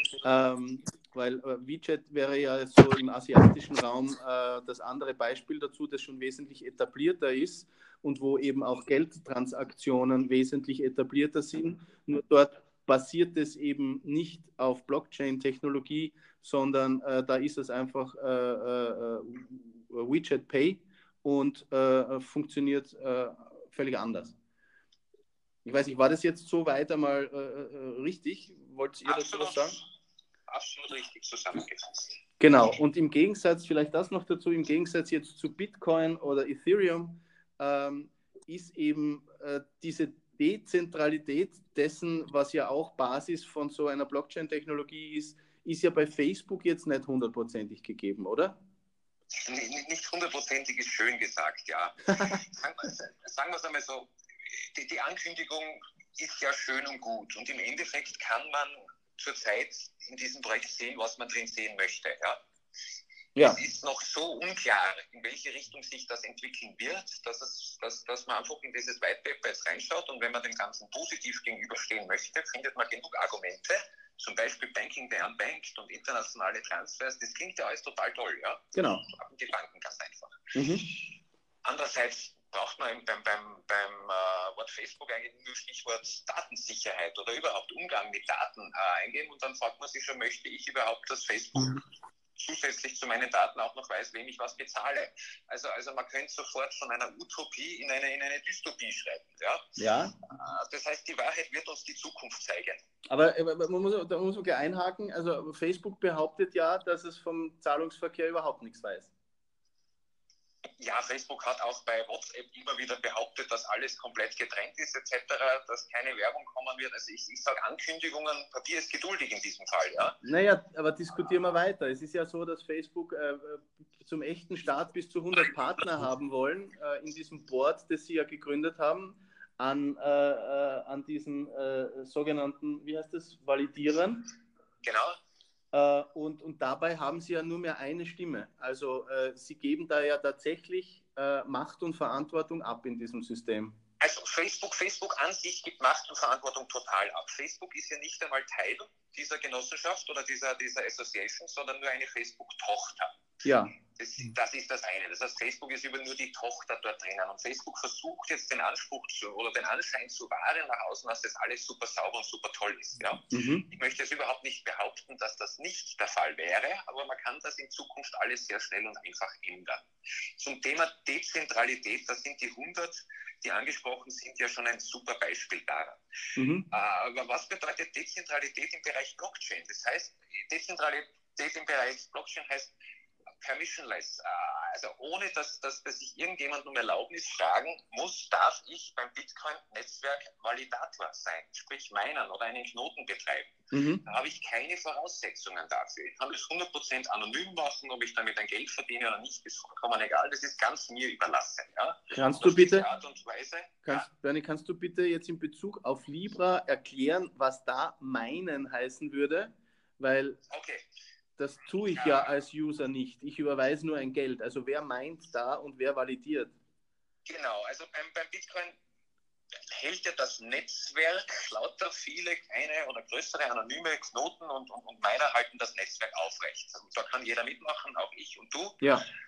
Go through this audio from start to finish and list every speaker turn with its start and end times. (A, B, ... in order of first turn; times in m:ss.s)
0:00.2-0:24.3 A
0:25.6-0:29.8 A
0:29.0-0:29.8 B
0:30.5-0:32.2 B
0:32.4-0:48.6 A
0:49.3-1:02.4 B
1:03.4-1:21.1 B
1:18.7-1:19.1 A
1:20.5-1:20.9 A
1:21.6-1:31.8 B
1:32.4-1:39.8 B
1:39.8-1:40.2 A
1:40.3-1:42.8 B
1:43.1-1:49.1 A
1:50.8-2:00.2 B
2:00.2-2:14.3 A
2:14.8-2:15.2 B
2:15.7-2:23.8 A
2:24.0-2:33.2 B
2:33.4-2:33.7 A
2:33.9-2:49.8 B
2:43.3-2:43.6 A
2:50.4-2:56.0 B
2:56.4-2:56.7 A
2:56.7-3:02.7 B
3:03.4-3:13.5 B
3:13.7-3:14.0 A
3:14.0-3:24.0 B
3:22.1-3:22.8 A
3:23.8-3:30.4 A
3:30.5-3:30.8 B
3:31.4-3:36.5 A
3:31.9-3:32.3 B
3:37.2-3:38.8 B
3:39.7-3:48.8 B
3:48.8-3:49.1 A